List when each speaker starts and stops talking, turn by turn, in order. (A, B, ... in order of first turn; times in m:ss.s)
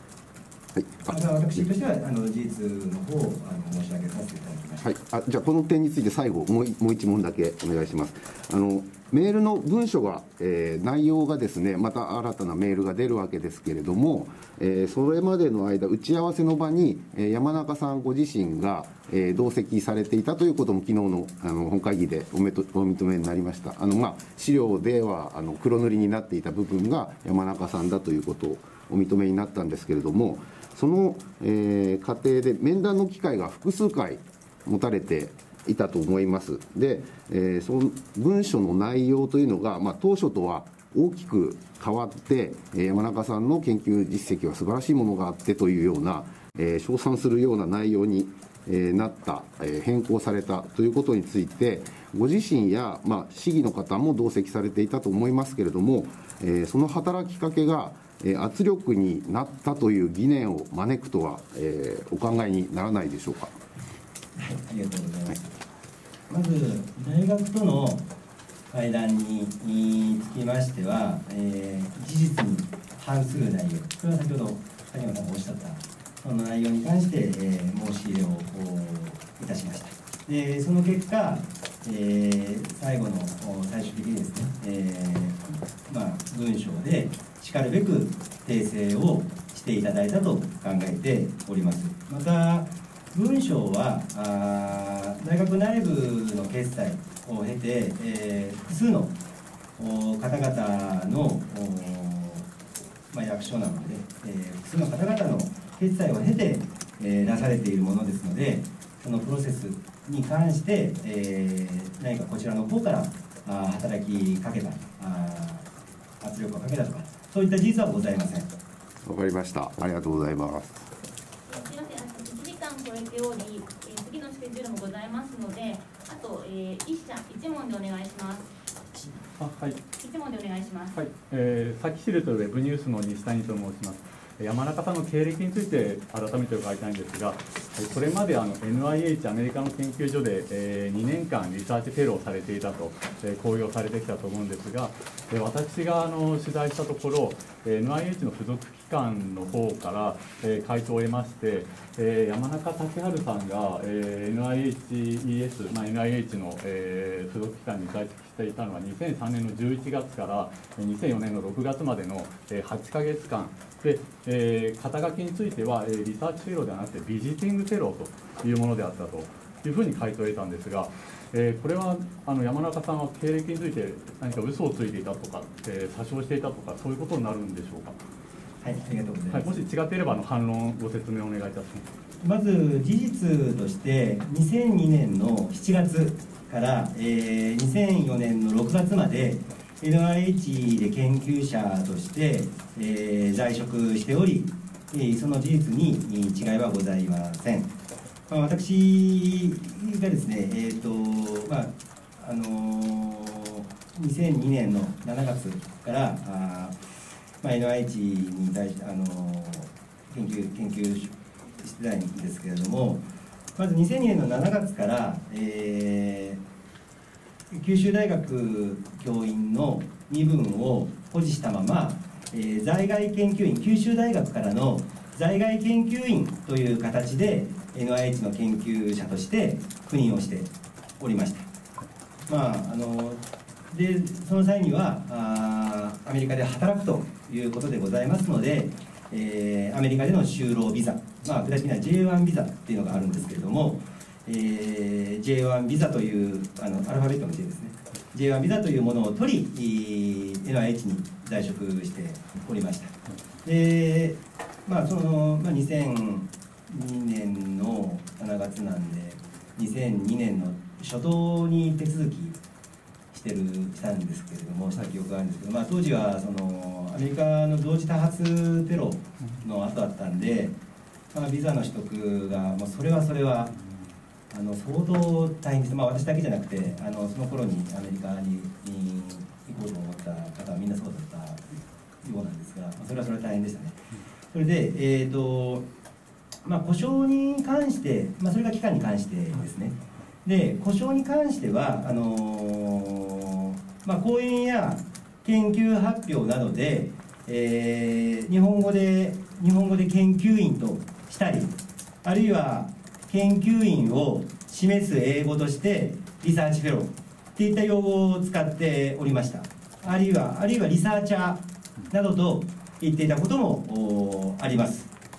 0:00.8-0:01.1 A
0:01.0-0:04.8 B
0:04.8-1:03.5 A
1:04.4-1:05.5 B
1:06.3-1:08.0 B
1:08.7-1:39.2 B
1:39.8-1:42.5 B
1:43.1-1:55.6 B
1:56.2-1:58.5 B
1:59.0-2:00.8 A
2:01.5-2:08.5 C
2:09.4-2:09.8 D
2:10.0-2:11.0 C
2:10.9-2:58.0 D
2:58.6-2:59.5 B
2:59.3-3:01.8 D
3:02.2-3:17.7 B
3:18.3-3:26.8 B
3:27.4-3:33.0 B
3:33.6-3:36.4 B
3:37.5-3:51.5 B
3:52.3-4:22.4 B
4:23.1-4:30.6 B
4:31.1-4:33.5 B
4:34.3-4:43.8 B
4:44.3-4:45.6 B
4:46.4-5:14.9 B